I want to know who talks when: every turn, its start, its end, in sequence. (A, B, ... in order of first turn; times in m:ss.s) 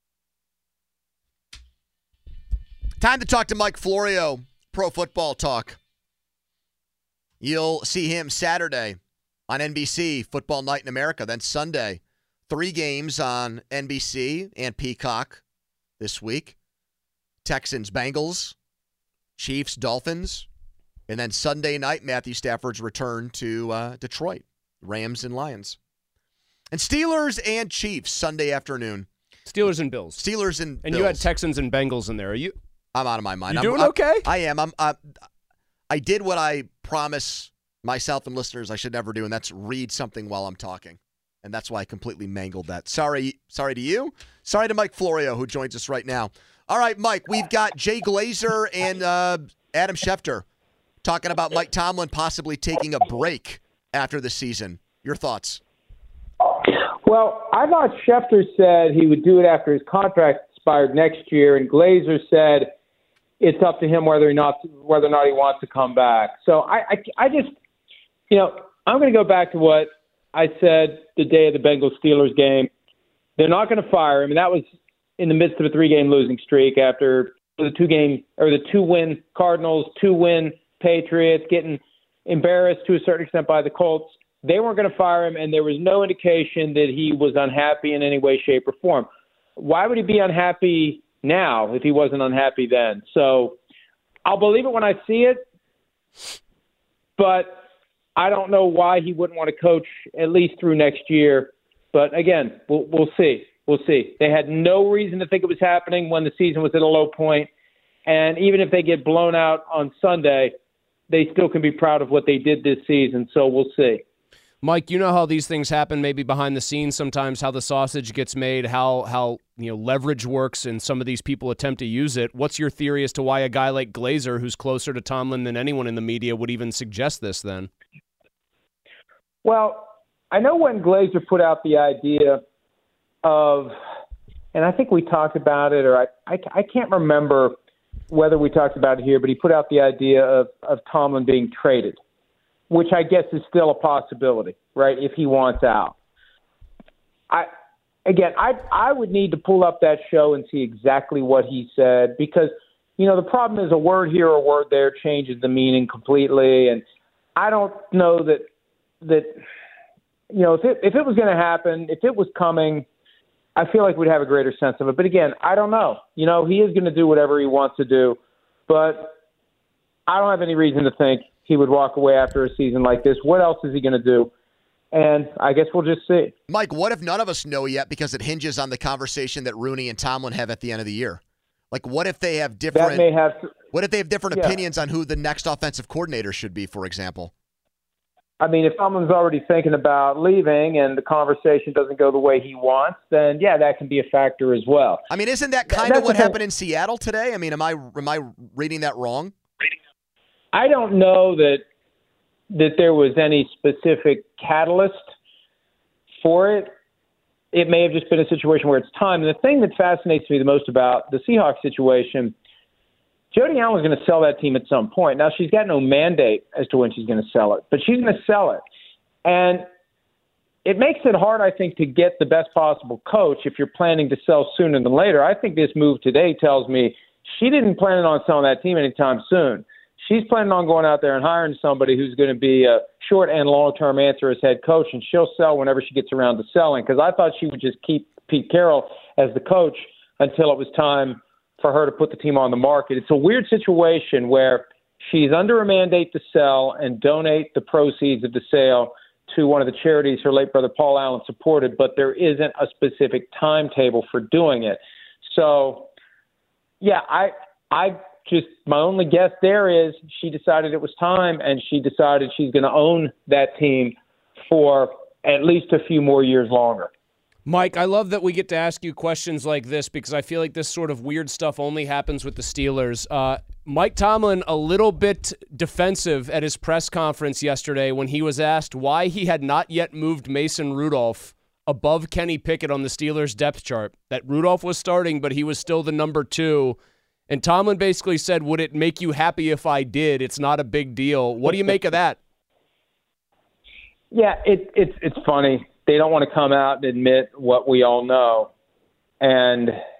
0:03.0-0:05.8 A
0:07.4-0:15.4 A
0:16.0-0:16.6 A
0:17.4-0:18.5 A
0:19.4-0:20.5 A
0:21.1-0:25.8 A
0:26.7-0:29.1 A
0:29.5-0:30.2 B
0:30.2-0:31.3 A
0:30.8-0:32.5 B
0:32.9-0:35.0 A
0:33.5-0:34.2 B
0:35.9-0:50.4 A
0:51.0-0:55.6 A
0:57.0-1:02.7 C
1:03.4-1:07.5 C
1:08.3-1:12.7 C
1:13.4-1:14.6 C
1:15.2-1:33.6 C
1:34.2-1:35.4 C
1:37.2-1:37.6 C
1:38.2-1:47.5 C
1:48.0-1:50.5 C
1:51.1-1:54.0 C
1:54.6-2:07.7 B
2:09.4-2:12.4 C
2:13.2-2:13.8 C
2:14.5-2:17.6 C
2:18.1-2:22.0 C
2:22.7-2:26.0 C
2:28.0-2:36.8 C
2:37.4-2:38.5 C
2:39.0-2:39.4 C
2:40.3-2:42.8 C
2:43.6-2:49.1 C
2:50.1-2:54.3 C
2:54.9-2:56.3 C
2:56.5-3:03.0 A
3:02.7-3:03.4 C
3:03.7-3:07.3 A
3:04.3-3:04.6 C
3:08.4-3:15.0 C
3:15.1-3:19.3 A
3:15.7-3:16.4 C
3:20.5-3:21.6 C
3:22.5-3:25.0 C
3:26.2-3:26.7 C
3:27.5-3:32.3 C
3:33.3-3:38.6 C
3:39.2-3:39.7 C
3:40.6-4:15.9 C
4:16.8-4:26.9 C
4:27.4-4:46.8 B
4:47.3-4:52.2 B
4:54.1-4:58.5 C
4:59.2-4:59.8 C